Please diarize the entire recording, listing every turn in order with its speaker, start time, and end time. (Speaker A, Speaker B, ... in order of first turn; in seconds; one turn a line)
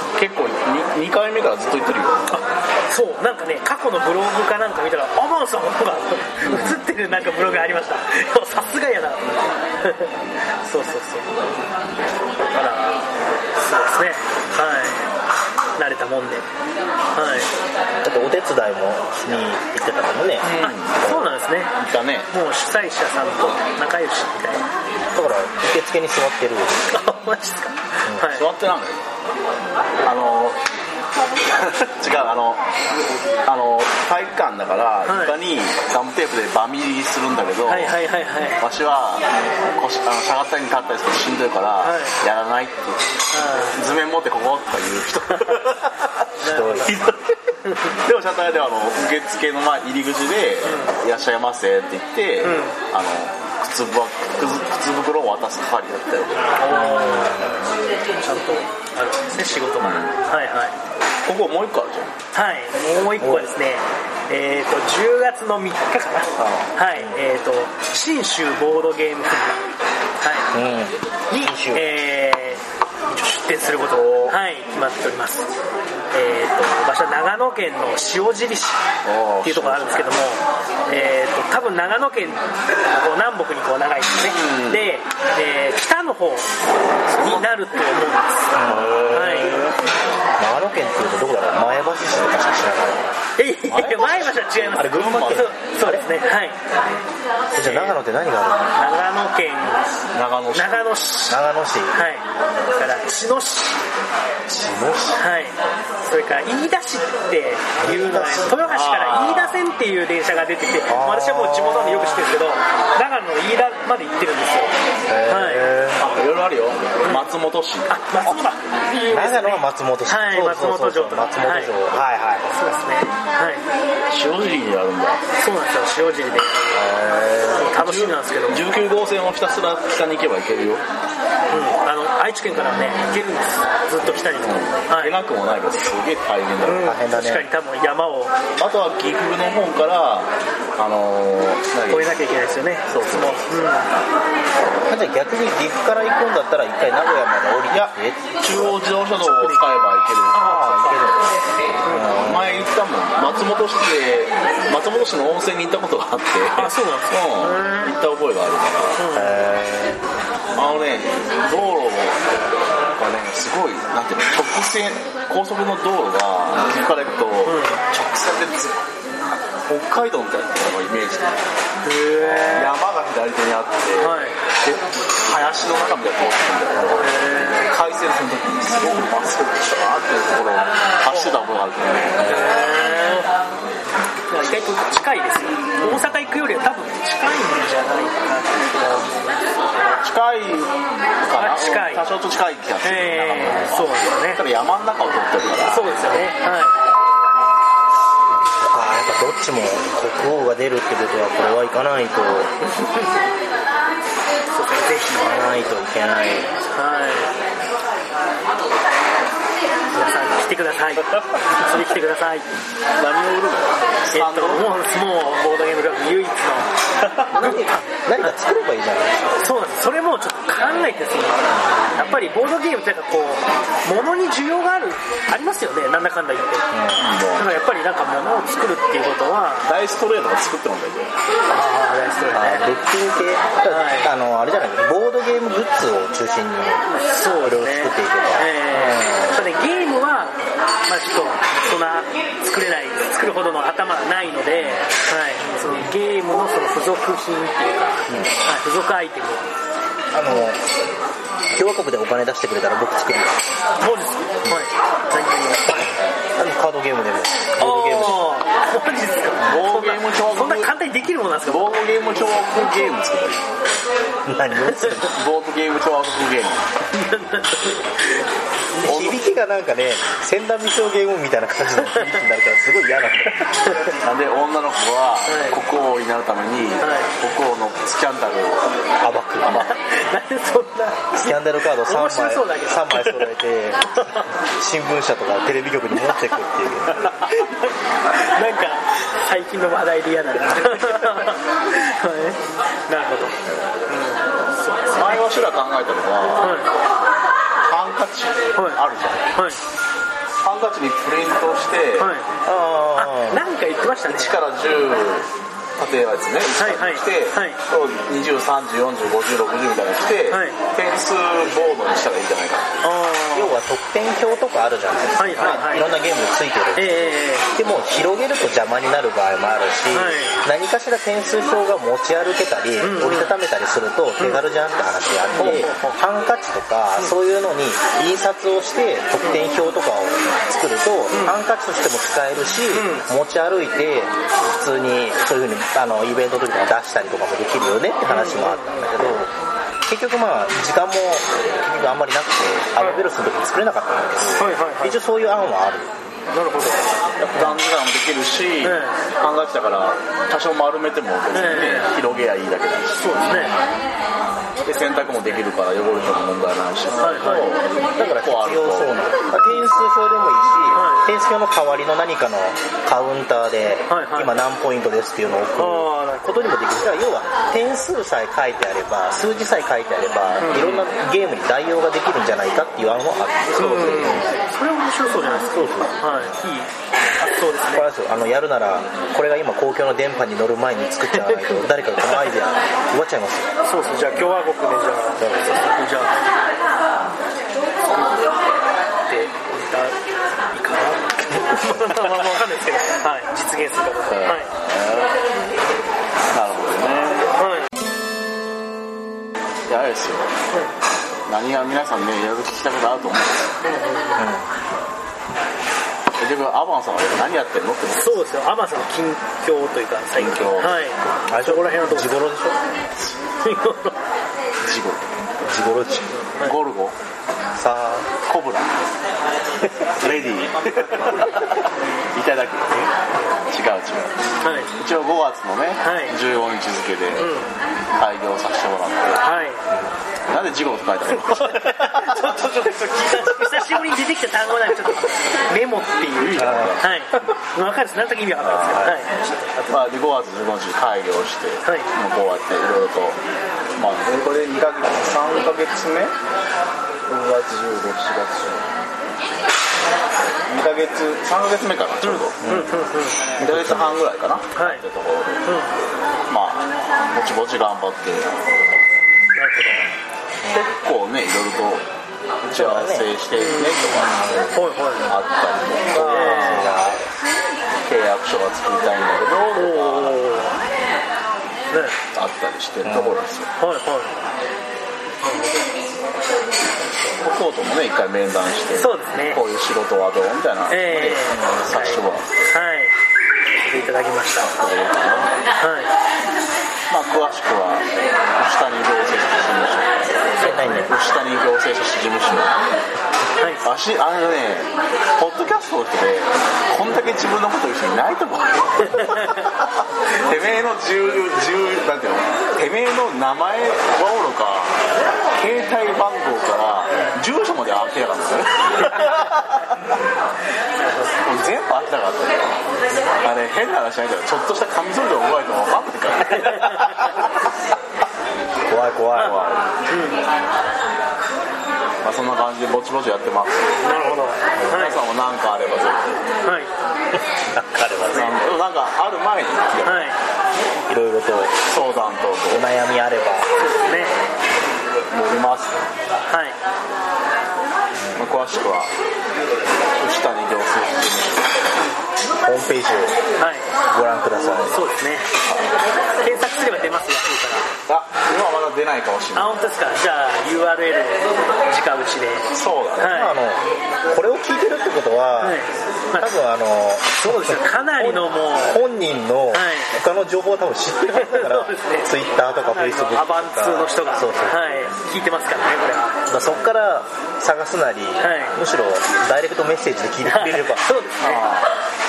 Speaker A: 0.1-2.4
Speaker B: 2.3-10.1
Speaker A: 6.4-6.8
Speaker B: 10.6-11.3
Speaker B: 12.5-13.0
Speaker B: 13.7-15.1
Speaker B: 15.8-16.5
Speaker B: 17.1-17.5
Speaker C: 18.0-20.5
Speaker A: 20.4-21.2
Speaker B: 20.6-21.7
Speaker A: 21.8-22.3
Speaker B: 22.3-24.6
Speaker C: 25.1-26.9
Speaker B: 26.9-28.5
Speaker A: 28.3-29.0
Speaker A: 30.0-30.6
Speaker A: 31.4-38.0
Speaker B: 35.0-35.4
Speaker B: 37.7-38.6
Speaker A: 38.6-43.0
Speaker B: 41.8-42.2
Speaker B: 43.3-43.8
Speaker A: 43.7-46.1
Speaker B: 45.3-45.6
Speaker B: 46.4-47.0
Speaker C: 46.4-47.0
Speaker A: 46.8-47.3
Speaker B: 47.6-47.9
Speaker A: 47.9-56.5
Speaker B: 50.6-50.9
Speaker B: 52.4-52.8
Speaker B: 56.6-57.5
Speaker C: 56.7-57.8
Speaker B: 58.2-60.7
Speaker A: 59.8-60.2
Speaker A: 61.2-62.1
Speaker B: 62.3-69.6
Speaker C: 63.2-63.5
Speaker A: 66.4-66.7
Speaker C: 66.9-67.2
Speaker B: 70.2-70.5
Speaker C: 70.5-71.9
Speaker B: 71.3-75.5
Speaker A: 73.8-74.3
Speaker B: 76.1-78.8
Speaker A: 79.0-80.2
Speaker B: 79.4-86.5
Speaker A: 84.2-84.9
Speaker A: 87.1-87.5
Speaker B: 87.1-89.6
Speaker C: 88.5-89.7
Speaker A: 88.6-89.7
Speaker C: 90.4-93.1
Speaker B: 93.4-96.6
Speaker A: 93.7-95.5
Speaker C: 94.7-96.0
Speaker C: 97.5-98.7
Speaker B: 97.6-98.0
Speaker B: 98.7-99.9
Speaker A: 100.1-100.8
Speaker B: 100.5-103.8
Speaker C: 101.3-102.0
Speaker C: 104.5-105.2
Speaker B: 105.2-114.7
Speaker C: 107.8-108.7
Speaker A: 108.5-109.6
Speaker C: 110.9-112.2
Speaker C: 115.1-116.0
Speaker B: 115.3-115.7
Speaker A: 116.0-118.4
Speaker B: 117.0-117.3
Speaker B: 117.9-121.8
Speaker C: 119.1-122.8
Speaker B: 122.5-123.6
Speaker A: 124.1-125.2
Speaker B: 125.4-126.7
Speaker C: 126.7-127.7
Speaker B: 127.5-128.7
Speaker A: 127.7-130.8
Speaker B: 131.5-135.2
Speaker C: 134.0-134.3
Speaker A: 134.4-136.9
Speaker B: 136.6-138.3
Speaker C: 136.8-137.5
Speaker A: 138.6-142.2
Speaker B: 141.9-143.9
Speaker A: 142.9-143.4
Speaker C: 144.9-148.8
Speaker A: 147.7-150.4
Speaker B: 149.2-151.0
Speaker C: 150.3-152.7
Speaker B: 151.8-152.2
Speaker A: 152.2-159.0
Speaker B: 156.6-157.9
Speaker B: 159.0-159.4
Speaker C: 159.1-160.0
Speaker A: 160.5-162.2
Speaker A: 162.9-168.8
Speaker B: 167.4-167.8
Speaker A: 169.7-171.4
Speaker B: 171.8-172.8
Speaker A: 172.3-182.4
Speaker B: 174.0-174.4
Speaker B: 177.0-177.7
Speaker C: 182.2-182.7
Speaker B: 182.2-183.3
Speaker B: 184.3-190.0
Speaker A: 190.0-190.7
Speaker A: 191.3-196.1
Speaker B: 191.4-192.1
Speaker B: 192.8-194.4
Speaker B: 195.7-196.7
Speaker C: 198.6-202.5
Speaker B: 202.6-203.1
Speaker B: 204.5-205.3
Speaker C: 205.2-206.6
Speaker B: 206.7-207.3
Speaker B: 209.9-212.5
Speaker A: 212.9-214.7
Speaker B: 214.1-216.7
Speaker A: 217.2-217.6
Speaker B: 217.3-218.3
Speaker C: 217.3-219.4
Speaker B: 219.4-226.7
Speaker C: 221.5-222.0
Speaker C: 226.7-227.1
Speaker A: 227.0-227.6
Speaker B: 227.3-229.7
Speaker A: 229.7-231.2
Speaker B: 231.5-232.7
Speaker C: 232.3-236.8
Speaker B: 233.7-234.1
Speaker B: 236.9-249.4
Speaker C: 237.4-239.5
Speaker C: 244.5-244.9
Speaker C: 248.1-248.5
Speaker C: 250.1-250.6
Speaker C: 251.5-253.4
Speaker B: 253.8-255.9
Speaker C: 256.4-258.3
Speaker B: 257.6-262.9
Speaker A: 259.4-260.7
Speaker A: 261.5-263.4
Speaker C: 264.2-265.1
Speaker B: 264.6-265.0
Speaker A: 265.1-266.7
Speaker B: 266.9-268.2
Speaker C: 268.8-273.6
Speaker A: 268.9-269.2
Speaker B: 271.8-272.2
Speaker B: 273.6-273.9
Speaker A: 274.0-278.8
Speaker B: 275.3-275.6
Speaker B: 276.8-277.1
Speaker C: 279.0-279.6
Speaker A: 279.4-279.7
Speaker B: 279.5-283.3
Speaker C: 281.1-287.1
Speaker B: 283.9-284.2
Speaker B: 287.0-295.2
Speaker A: 294.9-296.6
Speaker B: 296.4-296.7
Speaker A: 297.6-299.3
Speaker B: 298.5-298.8
Speaker B: 299.3-299.6
Speaker A: 300.4-302.1
Speaker B: 302.0-302.3
Speaker C: 302.4-303.4
Speaker B: 303.0-304.4
Speaker A: 304.1-312.8
Speaker B: 306.6-307.6
Speaker B: 310.3-310.6
Speaker B: 312.8-313.6
Speaker C: 313.3-339.3
Speaker B: 315.2-315.9
Speaker B: 316.8-317.5
Speaker B: 319.9-320.4
Speaker B: 322.8-323.3
Speaker B: 324.2-324.4
Speaker B: 325.3-325.9
Speaker A: 325.4-325.7
Speaker B: 331.1-331.4
Speaker B: 332.7-333.1
Speaker B: 338.1-339.0
Speaker C: 339.9-345.9
Speaker B: 342.8-343.1
Speaker B: 344.3-345.0
Speaker B: 346.3-346.8
Speaker A: 347.2-353.2
Speaker B: 348.6-349.0
Speaker B: 351.3-351.9
Speaker B: 353.0-353.6
Speaker C: 353.3-353.7
Speaker A: 354.6-359.0
Speaker B: 357.0-357.5
Speaker C: 358.0-374.4
Speaker B: 360.7-361.0
Speaker B: 363.9-364.4
Speaker B: 365.6-366.5
Speaker B: 370.4-370.9
Speaker B: 373.6-377.9
Speaker C: 375.5-376.2
Speaker C: 377.7-383.5
Speaker B: 381.1-382.2
Speaker B: 383.6-386.2
Speaker C: 385.2-386.1
Speaker B: 389.1-394.5
Speaker A: 394.1-395.1
Speaker A: 396.3-397.3
Speaker B: 397.4-397.7
Speaker A: 399.7-400.3
Speaker A: 401.2-403.5
Speaker B: 403.6-404.2
Speaker C: 404.2-404.5
Speaker A: 406.2-408.2
Speaker B: 407.9-412.1
Speaker A: 410.2-410.8
Speaker C: 411.3-412.6
Speaker B: 413.4-414.0
Speaker A: 414.6-415.1
Speaker C: 415.4-416.1
Speaker A: 416.4-416.9
Speaker C: 417.5-418.1
Speaker A: 418.2-418.7
Speaker C: 419.8-420.1
Speaker A: 420.0-422.9
Speaker A: 423.5-424.1
Speaker B: 424.4-424.7
Speaker A: 424.8-427.3
Speaker B: 425.8-426.1
Speaker B: 427.2-427.5
Speaker A: 427.9-429.2
Speaker B: 429.2-429.6
Speaker A: 430.3-432.4
Speaker B: 431.3-439.8
Speaker A: 436.2-437.3
Speaker C: 436.4-436.8
Speaker A: 438.4-438.9
Speaker A: 439.7-443.2
Speaker B: 441.6-441.9
Speaker A: 443.8-446.1
Speaker A: 447.1-448.7
Speaker A: 450.5-452.4
Speaker B: 452.0-453.3
Speaker C: 452.4-452.7
Speaker A: 453.4-455.5
Speaker C: 453.4-454.0
Speaker B: 454.5-454.8
Speaker B: 455.4-455.7
Speaker A: 456.3-458.7
Speaker B: 459.4-459.9
Speaker A: 460.6-461.8
Speaker A: 462.4-464.5
Speaker C: 462.5-463.1
Speaker B: 463.3-463.9
Speaker C: 464.0-464.5
Speaker B: 464.5-465.1
Speaker A: 465.1-466.8
Speaker C: 465.9-467.0
Speaker B: 465.9-466.8
Speaker A: 467.9-470.2
Speaker B: 469.5-470.6
Speaker B: 471.7-472.0
Speaker A: 472.1-473.5
Speaker C: 472.8-473.2
Speaker B: 473.6-474.1
Speaker B: 475.2-475.7
Speaker A: 477.2-482.3
Speaker B: 478.8-479.4
Speaker B: 480.7-481.4
Speaker C: 481.3-482.0
Speaker B: 482.5-482.9
Speaker B: 483.6-484.5
Speaker A: 484.5-485.4
Speaker B: 485.6-485.9
Speaker A: 486.9-492.6
Speaker C: 490.4-490.9
Speaker B: 490.4-490.7
Speaker B: 493.4-493.6
Speaker A: 493.6-499.7
Speaker B: 498.9-499.4
Speaker A: 500.2-504.8
Speaker A: 505.4-509.7
Speaker B: 508.8-509.4
Speaker B: 510.8-511.2
Speaker A: 511.2-512.6
Speaker B: 512.7-513.1
Speaker A: 513.2-517.3
Speaker B: 516.3-517.1
Speaker C: 518.7-519.4
Speaker A: 519.1-519.6
Speaker B: 519.9-520.2
Speaker A: 522.0-523.7
Speaker B: 523.8-525.0
Speaker C: 524.5-524.8
Speaker A: 524.7-526.3
Speaker B: 526.4-526.7
Speaker C: 527.1-528.4
Speaker A: 528.1-530.1
Speaker B: 529.8-530.2
Speaker C: 530.9-531.6
Speaker A: 531.7-532.7
Speaker C: 532.5-533.5
Speaker B: 533.6-534.1
Speaker A: 535.1-535.8
Speaker B: 536.3-536.6
Speaker C: 538.0-538.2
Speaker A: 538.1-538.9
Speaker A: 540.0-541.7
Speaker C: 542.4-543.2
Speaker B: 543.4-543.7
Speaker C: 543.9-544.7
Speaker B: 544.7-545.3
Speaker A: 545.5-545.7
Speaker B: 546.2-547.7
Speaker A: 547.9-549.5
Speaker B: 549.3-553.3
Speaker A: 552.5-553.2
Speaker C: 553.1-555.6
Speaker B: 555.4-556.4
Speaker C: 556.2-564.7
Speaker B: 557.2-558.8
Speaker B: 559.5-560.0
Speaker B: 561.1-562.1
Speaker B: 562.7-566.2
Speaker C: 566.3-570.9
Speaker B: 568.2-568.6
Speaker B: 570.2-571.5
Speaker A: 571.2-571.7